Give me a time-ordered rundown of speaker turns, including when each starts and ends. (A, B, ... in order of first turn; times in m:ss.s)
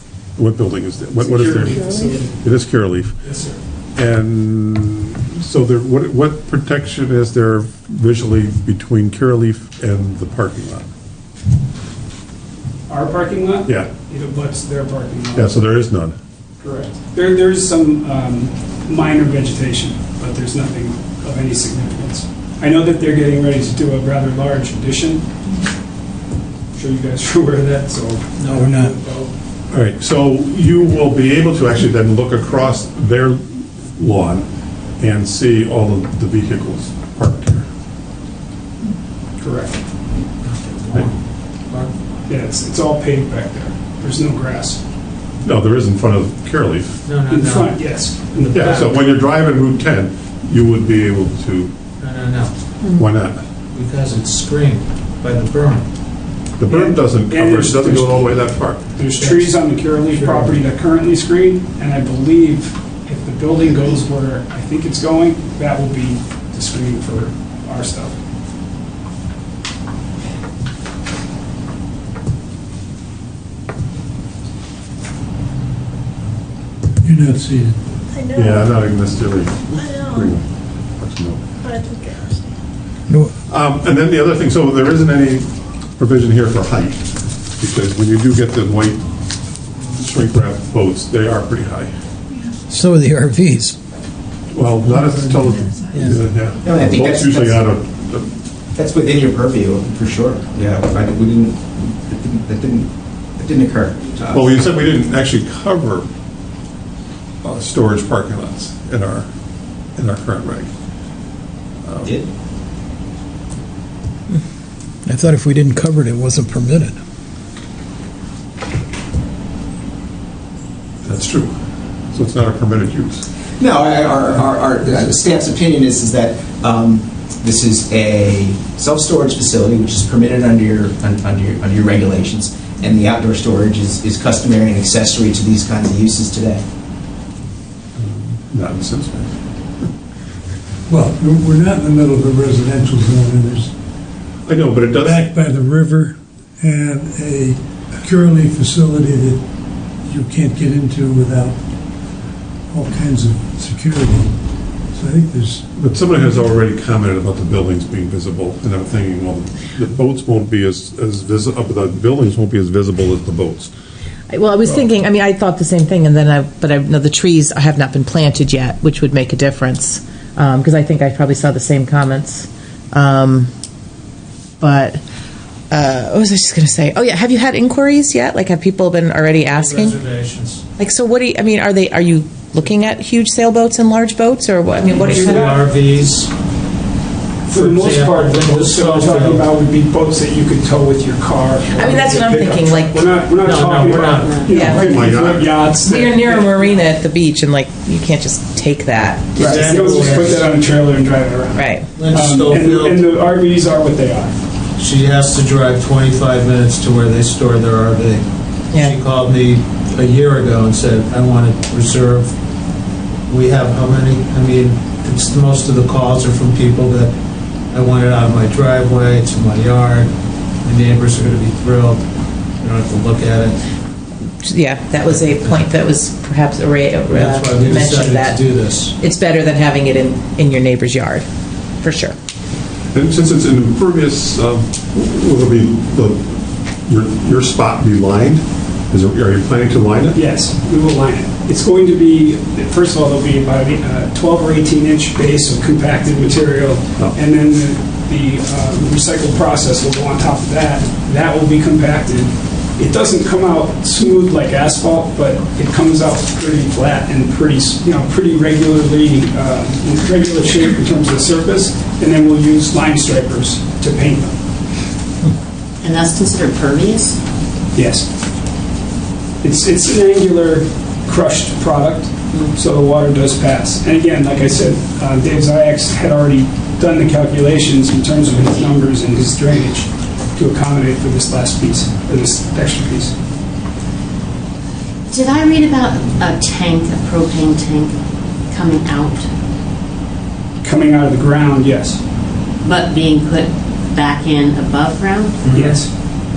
0:00.4-0:03.2 A
0:01.5-0:02.1 B
0:04.0-0:10.9 A
0:12.9-0:15.5 C
0:15.3-0:16.1 A
0:16.6-0:25.2 C
0:26.7-0:29.3 C
0:28.4-0:29.0 D
0:29.7-0:37.7 A
0:39.4-0:39.8 C
0:40.4-0:41.9 B
0:42.3-0:44.8 C
0:45.4-0:46.9 A
0:47.0-0:48.9 B
0:47.3-0:48.6 C
0:48.5-0:51.7 A
0:52.0-0:52.5 B
0:53.0-0:53.4 A
0:53.7-0:55.8 B
0:56.6-0:58.8 A
0:56.7-0:58.3 C
0:59.0-1:08.2 C
0:59.2-1:00.6 B
1:17.0-1:17.8 E
1:18.1-1:18.8 F
1:18.3-1:21.4 A
1:19.8-1:20.3 F
1:21.6-1:22.6 F
1:23.1-1:23.3 D
1:23.5-1:29.0 A
1:29.9-1:31.9 A
1:32.7-1:33.8 D
1:34.5-1:38.4 A
1:35.9-1:36.2 D
1:36.6-1:37.7 G
1:38.7-1:44.6 G
1:44.3-1:46.1 A
1:47.4-1:49.3 A
1:50.0-1:50.7 A
1:51.8-1:52.1 A
1:52.0-1:52.3 G
1:55.0-1:57.0 D
2:01.0-2:01.6 A
2:02.1-2:03.2 A
2:03.6-2:16.6 G
2:18.0-2:19.8 A
2:20.9-2:23.7 E
2:24.4-2:25.4 A
2:25.0-2:29.4 E
2:30.0-2:31.7 E
2:32.7-2:34.4 E
2:34.9-2:35.7 E
2:35.8-2:43.7 A
2:44.3-2:53.5 H
2:54.6-2:55.0 H
2:55.7-3:00.0 H
2:59.5-3:00.6 B
3:00.8-3:05.6 H
3:04.9-3:06.3 B
3:07.4-3:16.8 C
3:07.5-3:09.5 B
3:11.7-3:13.0 H
3:13.3-3:14.5 B
3:14.5-3:15.0 H
3:14.7-3:15.6 A
3:15.8-3:20.2 H
3:19.4-3:20.5 B
3:19.4-3:24.4 C
3:21.5-3:21.9 H
3:21.9-3:23.1 B
3:24.8-3:32.3 B
3:28.7-3:29.0 H
3:33.3-3:37.2 B
3:37.7-3:40.1 B
3:40.6-3:42.0 B
3:42.6-3:43.6 B
3:44.4-3:51.3 H
3:45.0-3:45.7 B
3:47.1-3:48.9 B
3:51.8-3:52.2 H
3:52.9-4:00.2 A
4:00.1-4:24.4 C
4:25.8-4:27.2 I
4:27.7-4:28.1 C
4:29.4-4:43.1 C
4:32.3-4:32.6 I
4:45.0-4:48.0 I
4:48.5-4:49.3 I
4:50.6-4:52.0 C
4:52.6-4:55.5 I
4:55.5-4:55.8 B
4:55.5-4:55.9 C